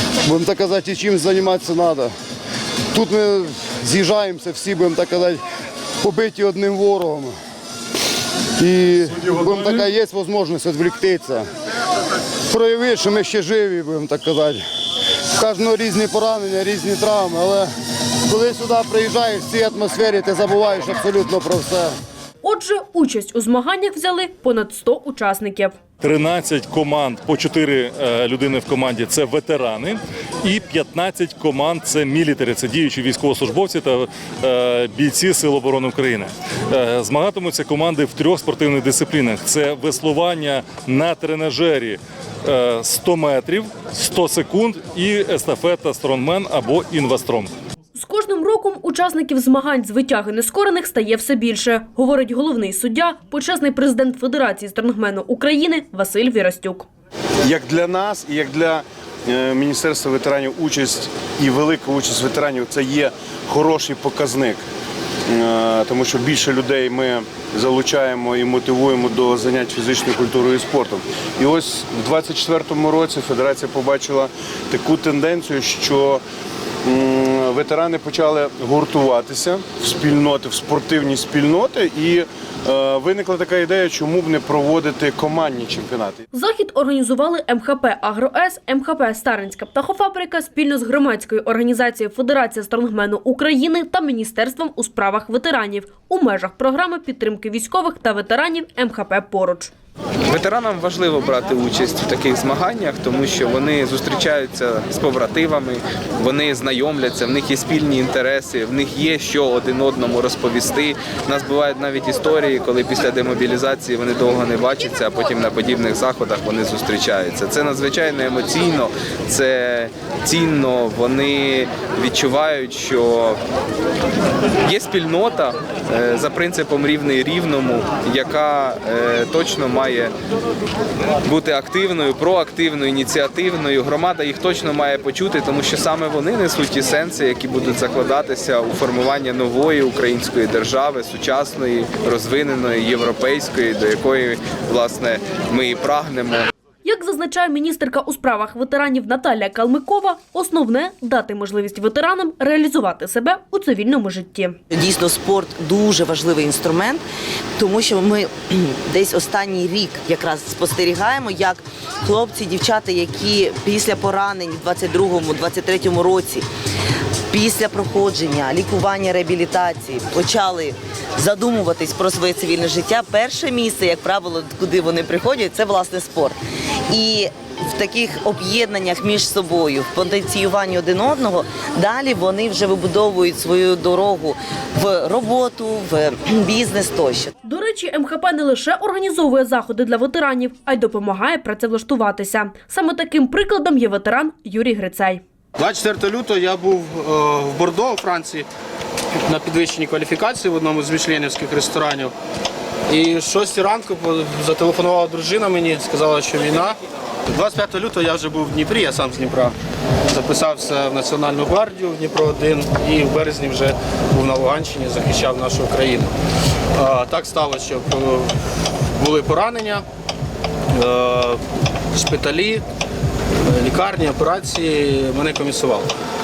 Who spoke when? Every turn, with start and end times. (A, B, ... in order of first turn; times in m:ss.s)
0:00.2-0:02.1 A
0:02.9-0:05.4 A
0:06.0-0:07.3 A
0:08.6-0:11.4 A
0:12.5-0:14.6 A
0:15.4-0:17.7 A
0:18.3-0:21.9 A
0:22.4-0:25.7 B
0:26.0-0:47.5 C
0:47.9-0:56.8 B
0:57.4-1:04.6 D
1:05.3-1:16.2 D
1:16.8-1:26.2 D
1:26.3-1:39.7 B
1:40.3-2:03.4 E
2:04.6-2:10.1 E
2:11.2-2:26.5 E
2:26.8-2:34.6 B
2:34.7-2:37.0 F
2:37.6-2:46.4 F
2:47.3-3:07.3 F
3:07.4-3:15.2 B
3:15.6-3:18.5 G
3:19.2-3:22.1 G
3:22.9-3:26.8 G
3:27.3-3:29.5 G
3:30.1-3:36.1 G
3:36.8-3:38.3 G
3:39.0-3:39.8 G
3:40.7-3:41.4 G
3:41.9-3:42.6 G
3:43.4-3:45.9 G